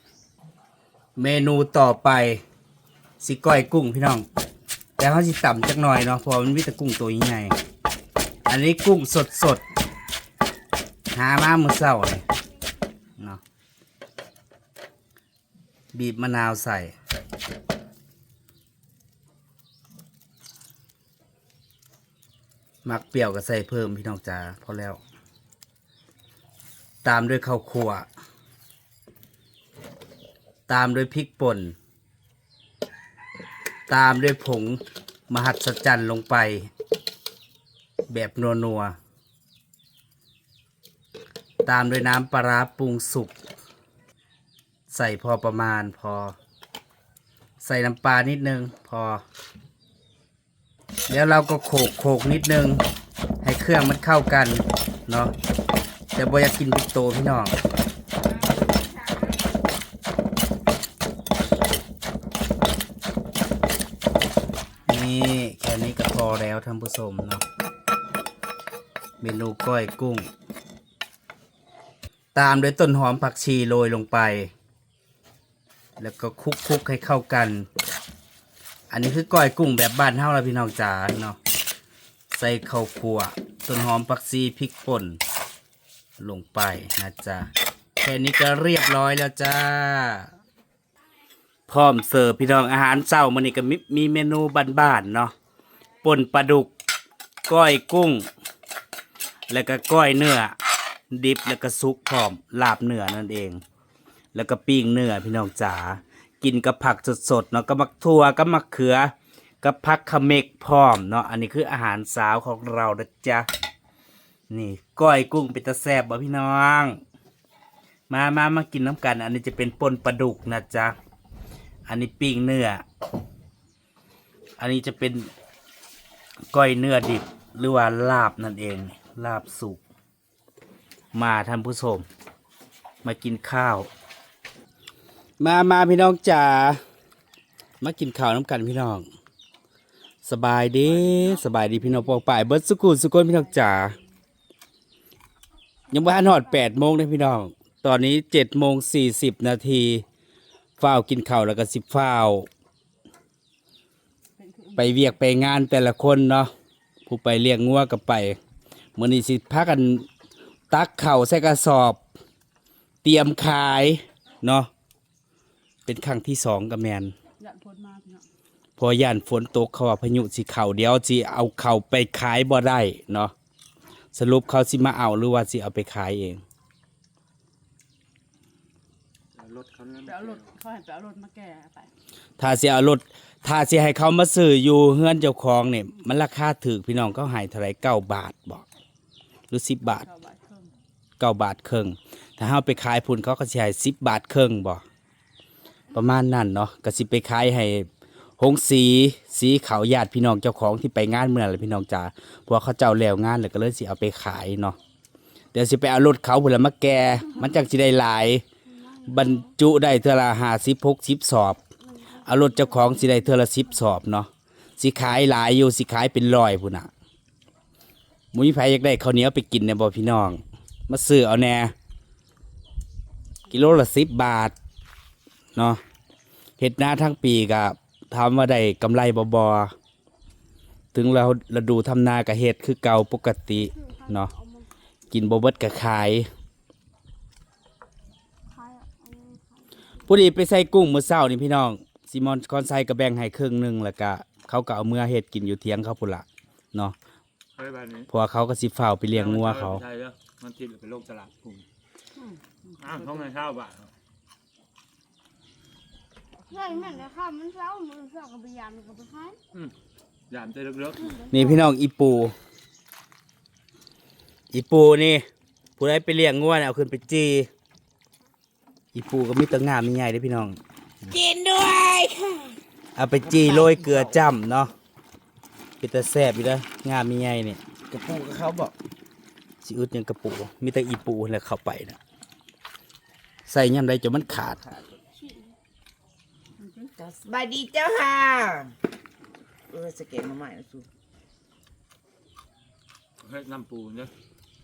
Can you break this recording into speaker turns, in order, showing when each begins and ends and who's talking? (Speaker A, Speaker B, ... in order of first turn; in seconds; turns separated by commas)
Speaker A: 1.2-2.4, Speaker A: 3.2-4.3, Speaker A: 5.0-7.5, Speaker A: 8.5-9.6, Speaker A: 11.1-12.2, Speaker A: 15.9-16.9, Speaker A: 22.8-25.0, Speaker A: 27.0-28.1, Speaker A: 30.7-31.8, Speaker A: 33.9-36.7, Speaker A: 38.1-39.0, Speaker A: 41.6-43.3, Speaker A: 44.9-46.4, Speaker A: 47.6-49.2, Speaker A: 51.1-52.8, Speaker A: 53.4-55.3, Speaker A: 56.1-57.6, Speaker A: 64.9-67.4, Speaker A: 69.2-70.3, Speaker A: 72.3-74.5, Speaker A: 76.0-77.7, Speaker A: 78.9-81.4, Speaker A: 82.3-85.2, Speaker A: 86.2-90.3, Speaker A: 91.7-95.3, Speaker A: 96.0-96.7, Speaker A: 97.5-98.3, Speaker A: 99.5-100.6, Speaker A: 101.1-103.6, Speaker A: 104.3-113.5, Speaker A: 114.5-117.0, Speaker A: 118.1-121.0, Speaker A: 121.9-122.8, Speaker A: 124.6-125.3, Speaker A: 126.5-129.8, Speaker A: 131.1-132.1, Speaker A: 133.0-133.9, Speaker A: 135.4-136.8, Speaker A: 137.8-139.1, Speaker A: 140.2-144.0, Speaker B: 140.8-141.4, Speaker A: 145.9-150.1, Speaker A: 150.8-152.5, Speaker C: 154.4-155.2, Speaker A: 154.8-156.5, Speaker A: 157.1-158.4, Speaker A: 159.0-160.1, Speaker A: 160.7-162.0, Speaker A: 163.0-164.7, Speaker A: 165.9-167.1, Speaker C: 167.4-168.2, Speaker A: 168.8-173.3, Speaker A: 174.1-176.4, Speaker B: 179.3-180.5, Speaker C: 180.1-181.9, Speaker A: 182.4-188.7, Speaker A: 189.5-190.1, Speaker C: 189.8-190.7, Speaker A: 191.2-194.8, Speaker A: 195.9-197.9, Speaker A: 198.4-204.8, Speaker A: 205.5-208.4, Speaker D: 208.7-209.4, Speaker A: 209.0-211.6, Speaker A: 212.1-216.9, Speaker A: 218.3-221.7, Speaker A: 223.5-224.6, Speaker A: 225.6-225.8, Speaker A: 226.6-229.7, Speaker A: 230.9-234.3, Speaker D: 233.7-234.7, Speaker A: 235.1-236.3, Speaker D: 238.5-239.8, Speaker A: 240.1-247.0, Speaker B: 247.6-248.1, Speaker A: 248.1-249.8, Speaker B: 249.1-251.7, Speaker C: 252.2-253.3, Speaker B: 252.8-253.9, Speaker D: 256.5-259.4, Speaker B: 260.3-261.1, Speaker D: 261.1-261.6, Speaker A: 261.3-262.4, Speaker A: 264.5-265.3, Speaker A: 265.8-267.5, Speaker A: 268.9-270.6, Speaker E: 271.1-272.6, Speaker A: 273.0-274.7, Speaker E: 273.2-274.2, Speaker A: 275.8-277.6, Speaker E: 277.9-278.7, Speaker A: 279.6-282.0, Speaker A: 283.5-284.6, Speaker E: 284.3-285.0, Speaker C: 286.6-286.9, Speaker E: 287.0-288.7, Speaker E: 289.7-290.9, Speaker B: 293.2-294.1